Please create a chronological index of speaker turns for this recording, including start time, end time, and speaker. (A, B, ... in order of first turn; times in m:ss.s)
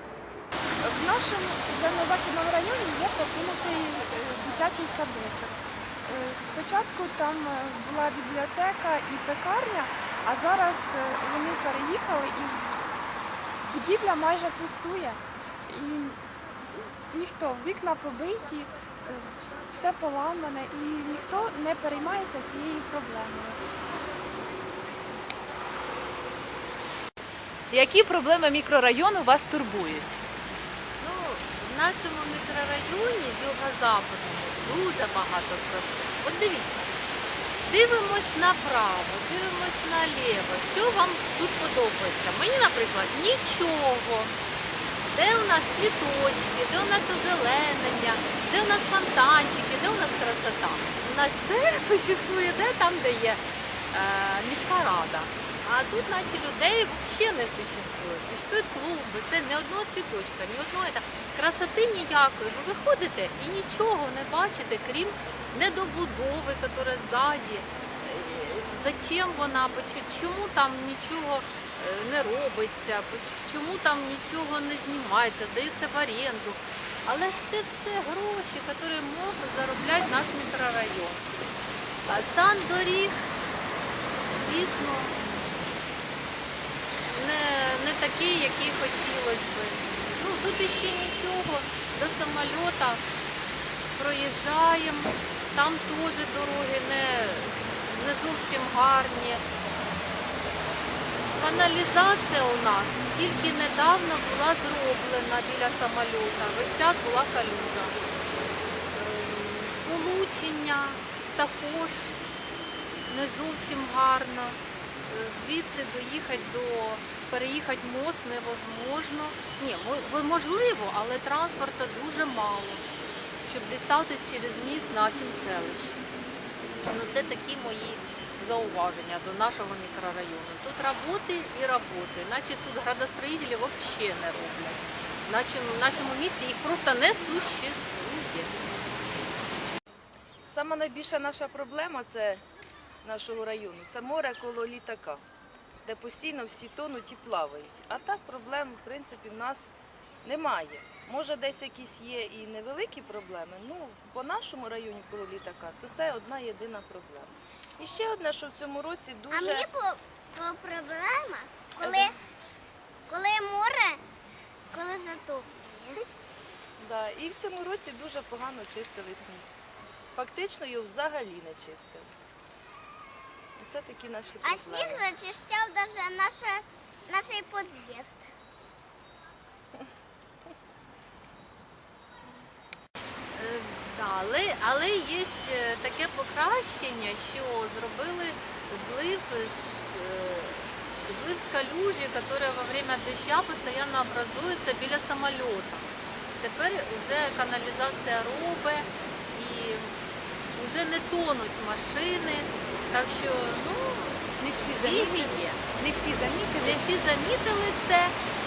0:00.8-0:12.8 A
0:13.6-0:16.2 A
0:17.1-0:23.6 A
0:27.7-0:30.2 B
0:31.0-0:36.9 C
0:37.6-0:44.3 C
0:45.1-1:21.2 C
1:22.1-1:23.2 C
1:24.3-1:25.2 C
1:27.1-1:33.0 C
1:33.9-1:39.4 C
1:41.4-1:48.0 C
1:48.9-1:52.2 C
1:53.1-2:02.8 C
2:03.4-2:06.0 C
2:06.8-2:18.5 C
2:20.5-2:22.4 D
2:23.0-2:25.2 D
2:25.8-2:29.7 D
2:30.2-2:39.6 D
2:39.3-2:42.2 E
2:41.8-2:42.1 D
2:43.1-2:44.0 E
2:44.7-2:45.5 E
2:46.8-2:49.4 D
2:50.1-2:52.1 D
2:53.6-2:55.0 D
2:54.4-2:58.3 E
3:03.3-3:15.9 C
3:16.4-3:20.0 C
3:20.6-3:24.3 C
3:24.4-3:26.8 B
3:24.8-3:25.6 C
3:26.6-3:28.2 C